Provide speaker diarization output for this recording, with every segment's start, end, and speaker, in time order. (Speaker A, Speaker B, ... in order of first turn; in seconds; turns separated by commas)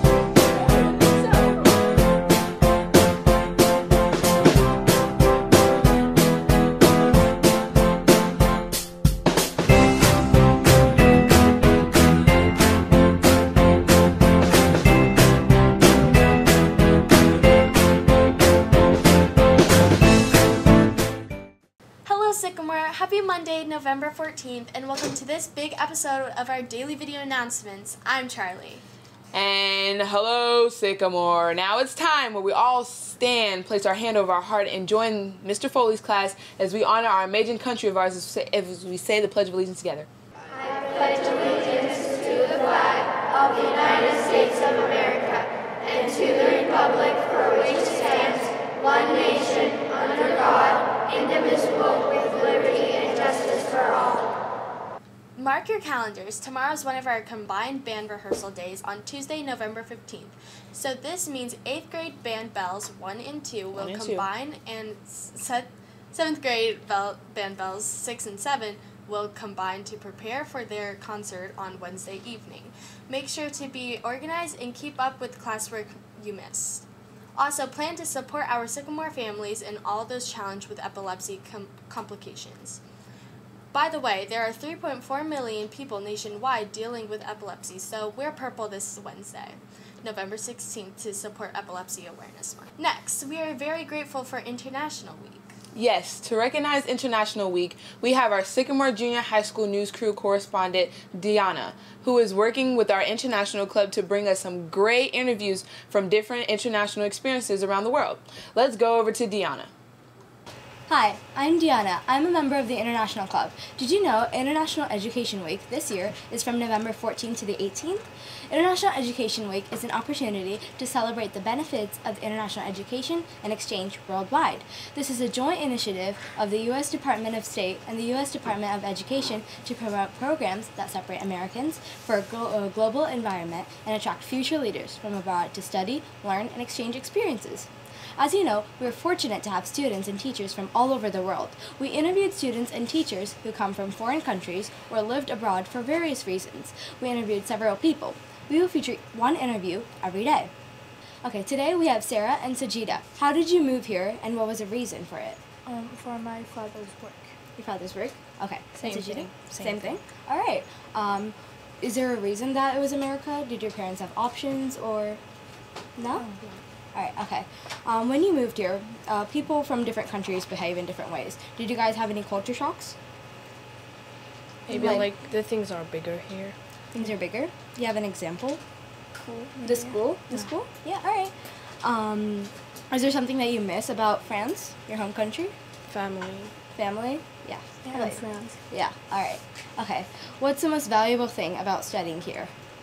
Speaker A: 0.5-1.9, Speaker A: 22.1-28.8, Speaker B: 29.3-40.1, Speaker C: 41.0-41.6, Speaker A: 48.0-53.2, Speaker A: 55.4-82.8, Speaker B: 63.8-64.3, Speaker A: 83.7-95.5, Speaker B: 95.7-109.7, Speaker C: 110.9-150.5, Speaker C: 151.2-155.4, Speaker D: 155.7-157.3, Speaker C: 157.6-165.2, Speaker D: 159.2-159.9, Speaker C: 166.0-166.3, Speaker D: 166.2-166.4, Speaker C: 166.9-173.0, Speaker E: 174.7-176.6, Speaker C: 174.7-175.1, Speaker C: 176.9-178.6, Speaker D: 179.3-180.0, Speaker C: 179.6-185.5, Speaker E: 185.9-186.5, Speaker C: 186.8-192.5, Speaker D: 187.8-188.6